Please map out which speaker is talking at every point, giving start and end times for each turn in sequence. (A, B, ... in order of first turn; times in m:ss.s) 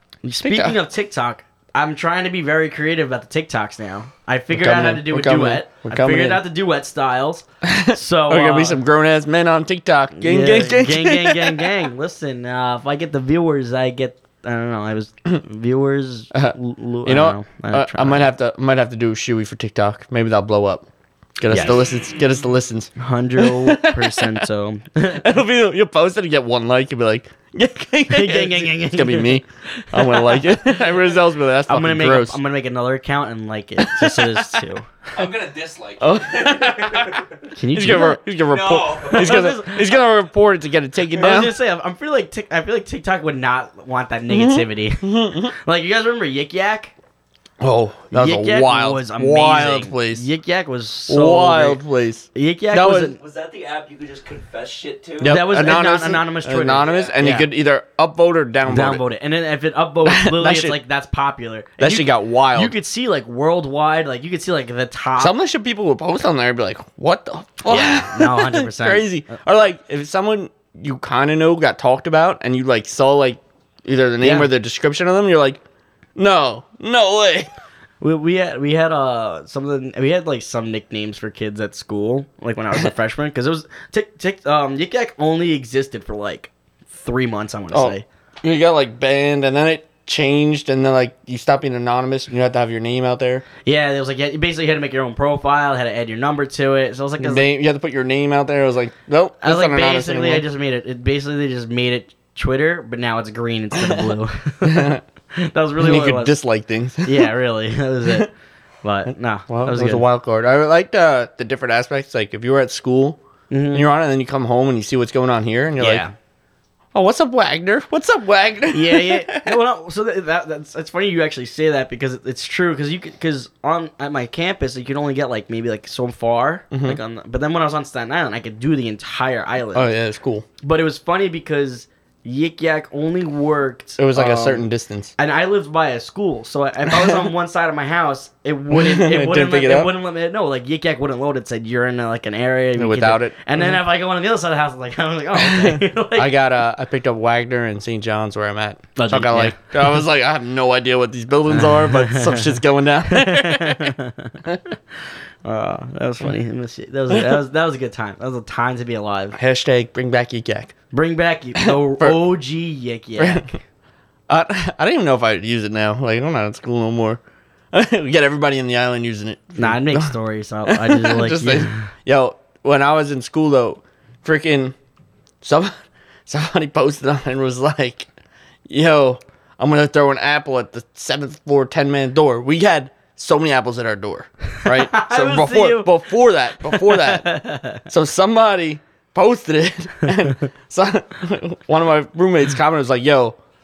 0:00.2-0:08.8 A
0:00.4-0:00.8 B
0:04.5-0:06.4 B
0:07.6-0:11.8 B
0:10.1-0:18.3 A
0:16.3-0:20.8 B
0:21.4-0:24.4 B
0:21.5-0:21.8 A
0:23.0-0:25.3 A
0:25.2-0:32.4 B
0:28.1-0:30.6 A
0:31.7-0:34.9 A
0:33.8-0:34.6 B
0:35.1-0:37.3 C
0:36.0-0:41.6 B
0:37.5-0:38.2 A
0:38.5-0:39.5 C
0:39.0-0:40.0 A
0:41.2-0:46.9 A
0:44.3-0:45.5 B
0:47.6-0:50.2 B
0:48.1-0:51.8 A
0:51.1-0:53.1 B
0:52.3-0:53.2 A
0:53.2-0:55.5 C
0:55.2-0:59.0 B
0:55.2-0:57.5 A
0:56.7-0:57.1 C
0:58.7-1:05.3 A
1:00.0-1:00.8 B
1:01.8-1:02.7 B
1:05.2-1:15.6 B
1:07.7-1:09.4 A
1:14.2-1:14.5 A
1:16.2-1:17.5 B
1:18.0-1:28.0 A
1:27.7-1:33.4 B
1:33.6-1:37.4 A
1:37.2-1:40.4 B
1:39.4-1:46.4 A
1:43.8-1:44.1 B
1:44.6-1:45.0 B
1:45.8-1:47.3 B
1:47.0-1:48.3 A
1:48.8-1:50.0 A
1:49.5-1:53.2 B
1:53.5-1:53.9 A
1:53.7-1:56.0 B
1:55.8-1:56.1 A
1:56.9-1:59.6 B
1:58.7-2:09.9 A
2:06.7-2:07.0 B
2:09.7-2:10.4 B
2:10.6-2:14.6 A
2:14.0-2:15.1 B
2:15.2-2:26.3 A
2:16.9-2:17.3 B
2:18.7-2:19.9 B
2:22.8-2:23.8 B
2:25.3-2:33.9 B
2:29.0-2:30.0 A
2:31.5-2:34.4 A
2:35.4-2:39.4 A
2:39.3-2:40.7 B
2:40.9-2:43.6 A
2:41.6-2:42.2 B
2:43.2-2:43.5 B
2:44.3-2:47.2 B
2:47.7-2:50.1 B
2:49.6-2:51.9 A
2:50.6-2:54.7 B
2:55.4-2:58.1 B
2:58.7-3:13.4 B
3:04.6-3:07.8 A